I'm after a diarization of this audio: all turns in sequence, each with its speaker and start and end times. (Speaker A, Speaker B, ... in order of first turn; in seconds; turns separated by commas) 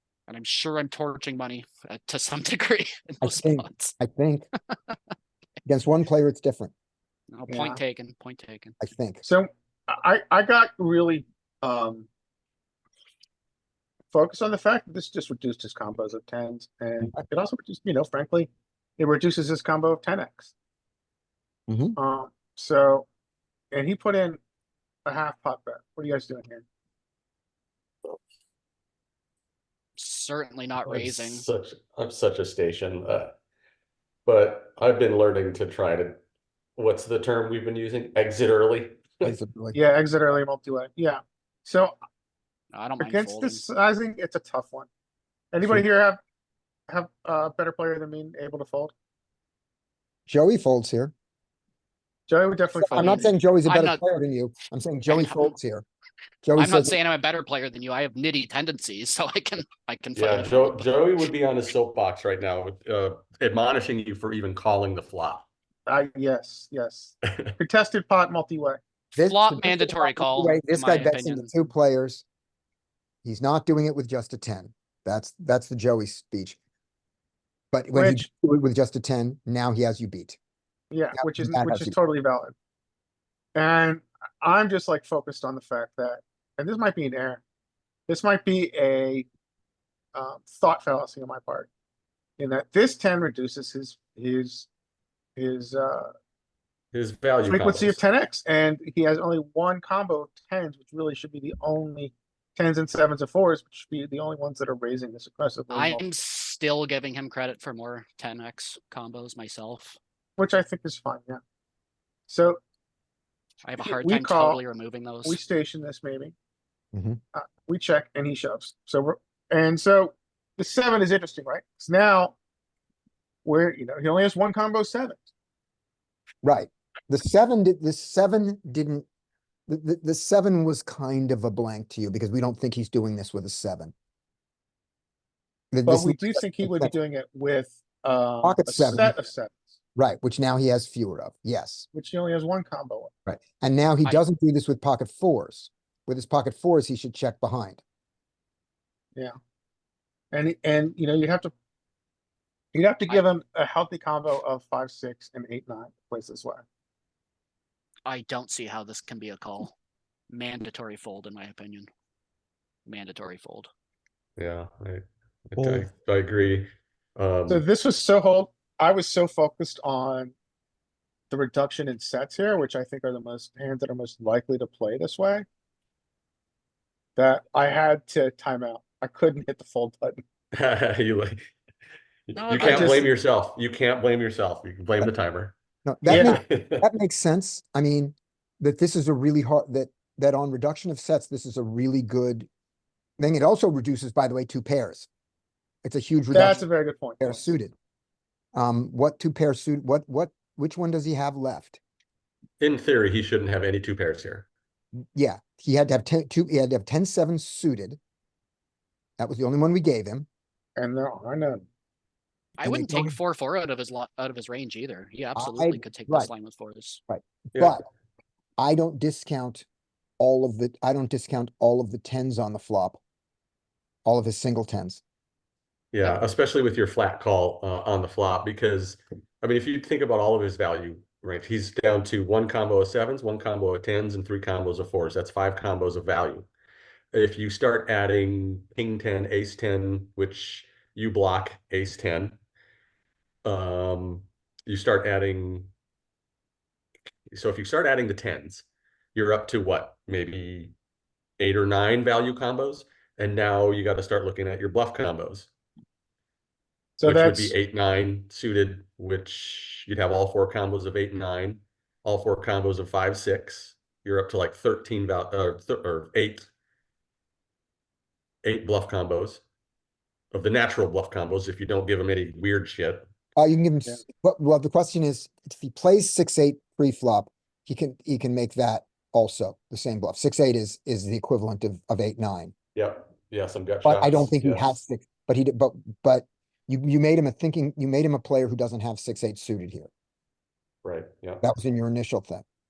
Speaker A: 0.3-4.0, Speaker B: 3.2-4.5, Speaker B: 5.6-6.7, Speaker A: 7.3-8.8, Speaker C: 7.5-7.8, Speaker B: 8.8-9.2, Speaker C: 9.2-12.1, Speaker C: 14.1-20.5, Speaker B: 21.7-21.9, Speaker C: 21.9-23.1, Speaker C: 23.7-24.4, Speaker C: 25.1-26.6, Speaker A: 30.0-31.5, Speaker D: 30.9-33.4, Speaker D: 34.2-36.1, Speaker D: 36.8-39.3, Speaker B: 39.2-39.8, Speaker C: 39.7-41.9, Speaker A: 42.7-43.6, Speaker C: 43.0-44.9, Speaker C: 45.5-46.2, Speaker C: 46.9-48.9, Speaker B: 50.3-51.1, Speaker C: 52.3-53.3, Speaker B: 52.8-55.9, Speaker A: 52.8-54.0, Speaker A: 55.1-55.5, Speaker B: 56.4-57.0, Speaker A: 56.5-60.9, Speaker D: 60.1-65.5, Speaker C: 65.9-68.8, Speaker D: 67.2-67.5, Speaker B: 69.1-72.2, Speaker A: 69.2-71.5, Speaker B: 73.2-76.6, Speaker B: 77.7-80.4, Speaker C: 77.9-78.2, Speaker C: 80.9-82.5, Speaker B: 81.1-81.9, Speaker C: 83.5-87.4, Speaker C: 88.1-89.3, Speaker C: 90.1-91.7, Speaker C: 92.4-94.7, Speaker C: 95.4-96.1, Speaker D: 96.9-98.0, Speaker C: 97.5-106.0, Speaker A: 105.7-110.0, Speaker C: 110.4-111.4, Speaker C: 112.3-112.6, Speaker A: 113.6-115.4, Speaker C: 113.8-114.6, Speaker C: 115.2-116.3, Speaker B: 116.9-117.2, Speaker C: 117.3-122.3, Speaker C: 123.4-125.2, Speaker B: 126.4-129.1, Speaker B: 129.7-133.9, Speaker B: 135.7-136.9, Speaker C: 135.9-139.7, Speaker B: 138.4-139.1, Speaker B: 139.9-141.9, Speaker C: 141.9-143.1, Speaker B: 143.2-147.8, Speaker C: 150.3-151.5, Speaker C: 152.7-156.6, Speaker A: 158.1-159.7, Speaker A: 160.3-161.9, Speaker A: 162.8-163.7, Speaker D: 164.4-166.7, Speaker D: 167.2-167.6, Speaker C: 167.5-170.3, Speaker C: 171.3-175.4, Speaker C: 177.2-180.2, Speaker D: 180.5-181.4, Speaker D: 182.3-185.5, Speaker A: 182.3-183.0, Speaker C: 182.6-183.1, Speaker B: 185.8-192.5, Speaker D: 186.1-186.8, Speaker C: 186.1-186.4, Speaker B: 193.2-195.1, Speaker B: 195.8-196.6, Speaker C: 196.3-197.4, Speaker B: 197.2-197.7, Speaker B: 198.5-201.8, Speaker D: 202.6-204.5, Speaker B: 205.0-208.0, Speaker B: 209.2-210.2, Speaker C: 210.8-211.7, Speaker A: 212.6-217.0, Speaker B: 212.6-213.2, Speaker B: 215.3-216.3, Speaker B: 217.1-217.8, Speaker B: 218.6-219.7, Speaker B: 220.2-223.0, Speaker B: 224.1-225.0, Speaker D: 225.9-236.5, Speaker D: 237.1-242.4, Speaker D: 243.4-245.7, Speaker D: 247.3-250.7, Speaker D: 251.4-255.5, Speaker C: 257.0-257.5, Speaker D: 257.0-266.5, Speaker D: 268.4-269.4, Speaker D: 270.3-273.1, Speaker B: 273.4-282.5, Speaker D: 282.7-284.8, Speaker B: 283.8-289.9, Speaker D: 290.8-291.4, Speaker B: 291.4-292.4